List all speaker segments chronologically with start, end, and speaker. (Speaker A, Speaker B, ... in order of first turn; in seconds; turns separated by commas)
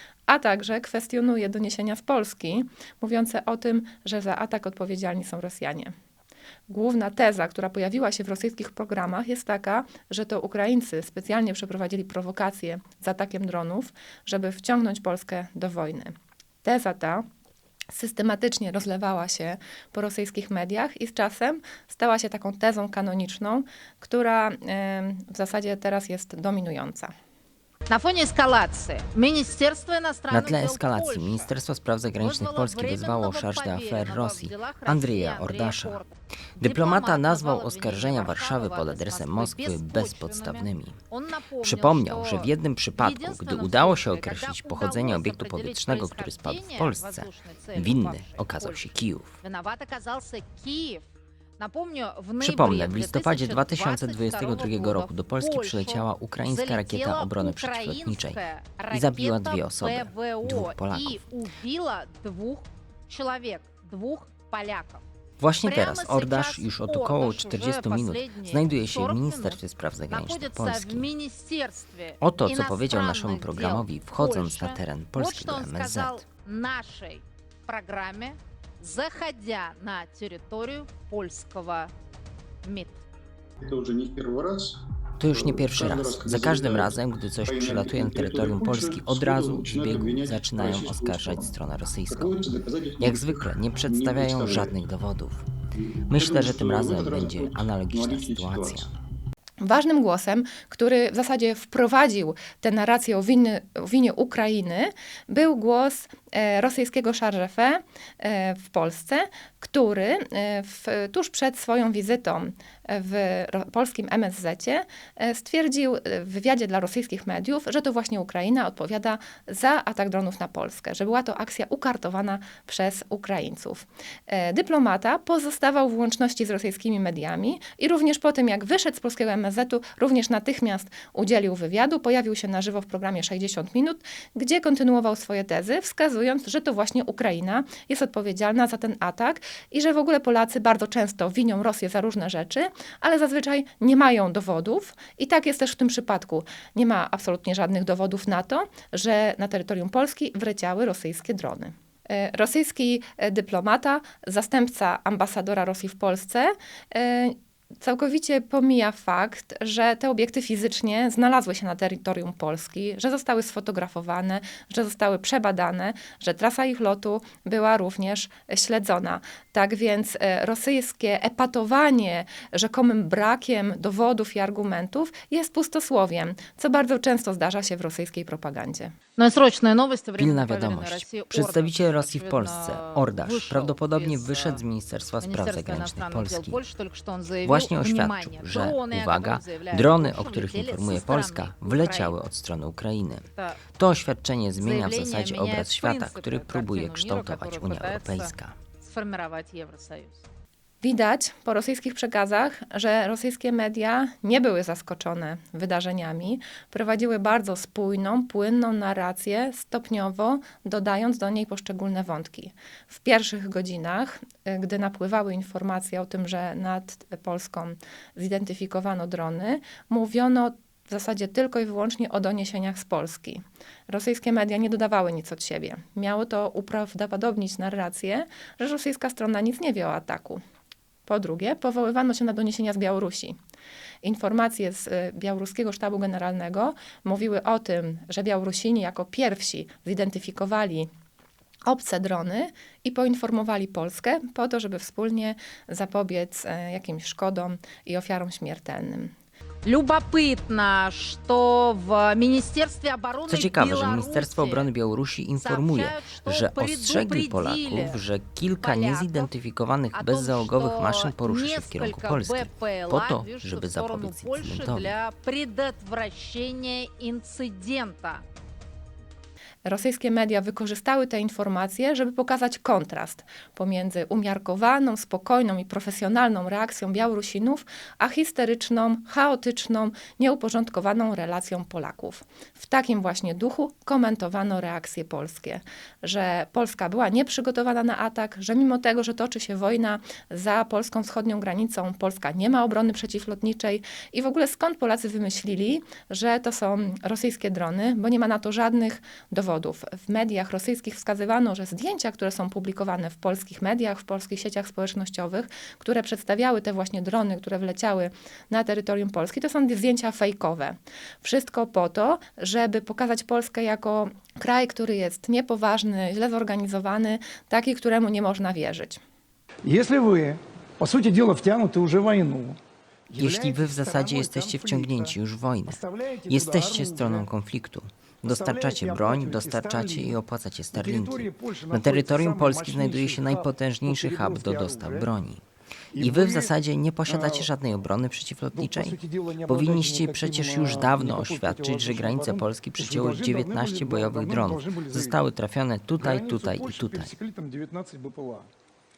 Speaker A: 0.3-5.9, Speaker A: 6.7-17.3, Speaker A: 17.9-27.1, Speaker B: 27.9-31.5, Speaker C: 30.3-36.0, Speaker B: 32.2-48.9, Speaker C: 36.6-41.0, Speaker C: 41.6-49.4, Speaker B: 49.4-51.0, Speaker B: 51.6-65.0, Speaker C: 52.4-58.4, Speaker C: 58.9-61.2, Speaker C: 65.4-71.1, Speaker B: 65.6-81.9, Speaker C: 72.2-76.2, Speaker B: 82.6-83.0, Speaker D: 83.7-84.7, Speaker C: 85.2-95.4, Speaker D: 85.7-86.8, Speaker D: 87.7-90.1, Speaker D: 90.6-91.3, Speaker D: 92.1-93.2, Speaker D: 94.1-94.6, Speaker C: 96.1-98.9, Speaker D: 96.2-97.4, Speaker D: 98.0-98.7, Speaker A: 99.6-178.9, Speaker B: 179.2-184.6, Speaker C: 180.2-186.6, Speaker B: 185.2-192.2, Speaker C: 187.4-198.6, Speaker B: 193.3-193.6, Speaker B: 194.6-200.2, Speaker A: 200.8-230.4, Speaker A: 231.1-233.4, Speaker A: 234.0-240.9, Speaker A: 241.7-249.1, Speaker B: 249.7-254.7, Speaker C: 253.3-265.0, Speaker B: 255.4-258.0, Speaker B: 258.6-259.3, Speaker B: 259.9-268.2, Speaker A: 269.6-319.0, Speaker E: 319.6-322.6, Speaker E: 323.1-327.3, Speaker C: 323.2-335.4, Speaker E: 328.2-330.2, Speaker E: 330.7-335.1, Speaker E: 335.9-336.6, Speaker C: 336.0-347.1, Speaker E: 337.1-337.5, Speaker E: 338.5-345.2, Speaker E: 346.0-348.5